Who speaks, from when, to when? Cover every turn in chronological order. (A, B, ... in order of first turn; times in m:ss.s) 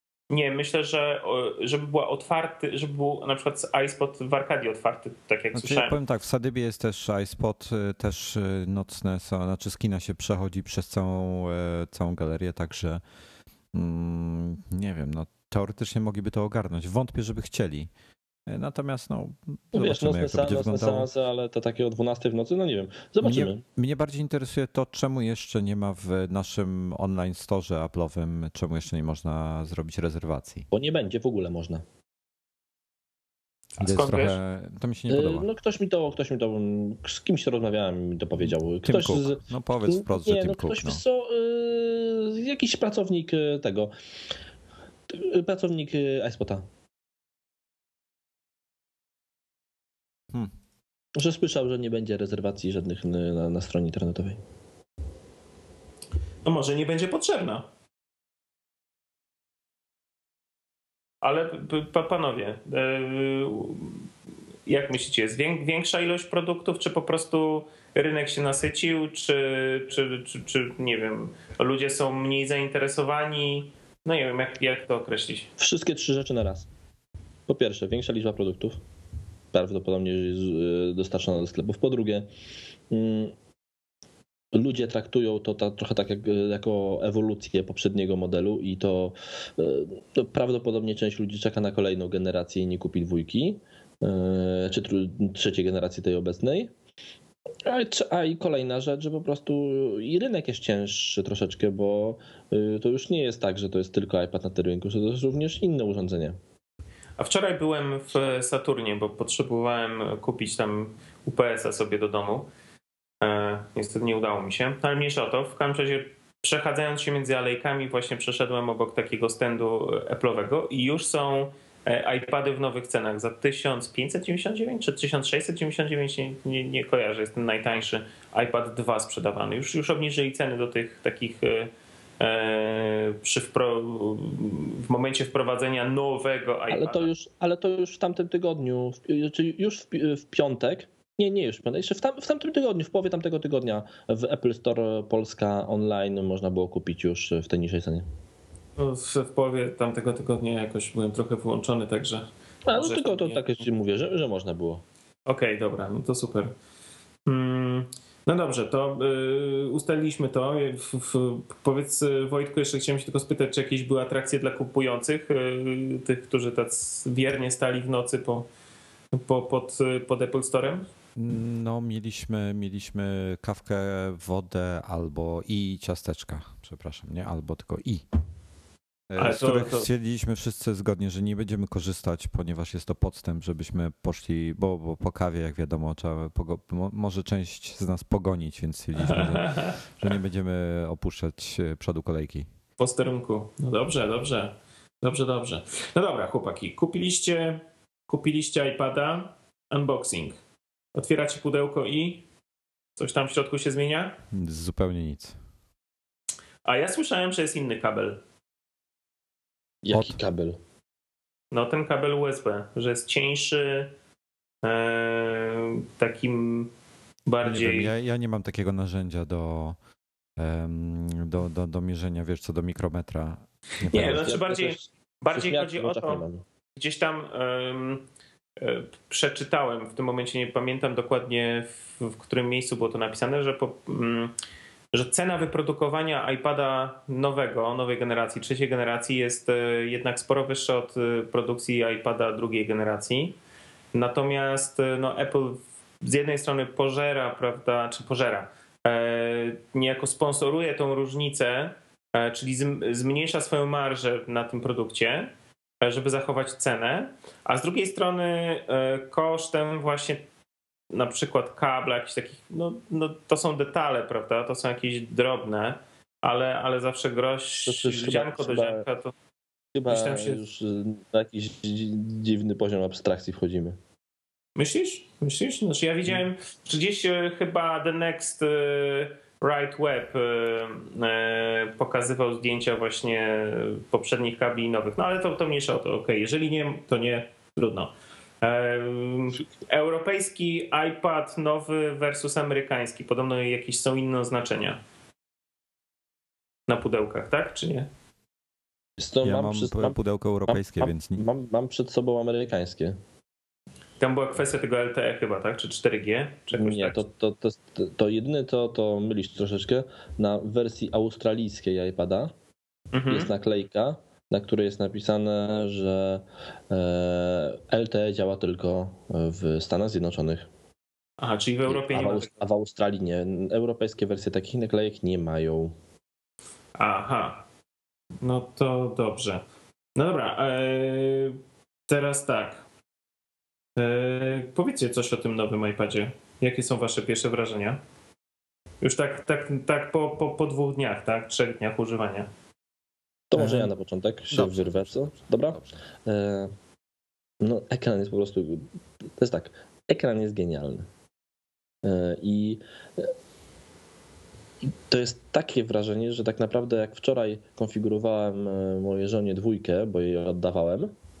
0:00.3-0:06.0 A
0:05.5-0:13.0 B
0:13.7-0:17.9 B
0:18.5-0:21.1 B
0:19.7-0:23.6 C
0:23.2-0:30.7 B
0:30.7-0:31.8 C
0:33.8-0:34.4 A
0:33.8-0:35.5 B
0:35.1-0:43.9 C
0:38.4-0:41.0 B
0:45.1-0:46.6 C
0:51.2-0:54.4 C
0:56.4-0:57.6 A
1:01.2-1:04.1 A
1:04.6-1:15.5 A
1:15.6-1:16.7 C
1:17.5-1:18.8 C
1:19.5-1:22.3 C
1:22.9-1:23.3 C
1:24.5-1:36.7 C
1:37.6-1:46.4 C
1:47.2-1:52.5 A
1:53.2-2:17.1 A
2:16.7-2:28.0 C
2:28.8-2:33.5 A
2:32.6-2:34.8 C
2:35.3-2:36.5 A
2:37.3-2:48.5 A
2:49.1-2:50.8 A
2:51.2-2:58.0 B
2:59.1-3:12.5 B
2:59.2-2:59.9 A
3:09.0-3:09.8 A
3:12.8-3:20.4 A
3:20.9-3:22.2 A
3:23.0-3:24.2 A
3:24.3-3:25.4 B
3:26.6-3:28.2 A
3:29.8-3:30.6 C
3:31.5-3:33.9 A
3:34.6-3:36.7 A
3:37.2-3:37.9 A
3:37.4-3:39.8 B
3:40.4-3:44.3 B
3:43.9-3:46.4 C
3:43.9-3:46.2 A
3:46.8-3:48.0 A
3:48.6-3:54.3 A
3:54.9-4:03.4 A
4:03.9-4:15.3 A
4:15.8-4:20.2 A
4:20.9-4:29.1 A
4:27.6-4:28.8 C
4:29.7-4:33.8 C
4:29.9-4:30.4 A
4:34.6-4:54.8 A
4:56.7-4:57.9 A
4:59.0-5:03.0 C
4:59.2-5:01.2 B
5:04.0-5:07.0 A
5:06.5-5:12.3 C
5:12.9-5:13.3 A
5:13.1-5:20.5 C
5:21.2-5:22.3 A
5:21.6-5:25.7 C
5:26.8-5:27.4 A
5:28.2-5:29.4 A
5:30.0-5:31.4 A
5:31.9-5:32.6 A
5:33.8-5:37.8 A
5:38.8-5:42.3 A
5:43.3-5:46.5 C
5:43.4-5:43.7 B
5:44.3-5:44.8 B
5:47.4-5:50.9 C
5:51.8-5:53.1 C
5:54.6-6:00.9 C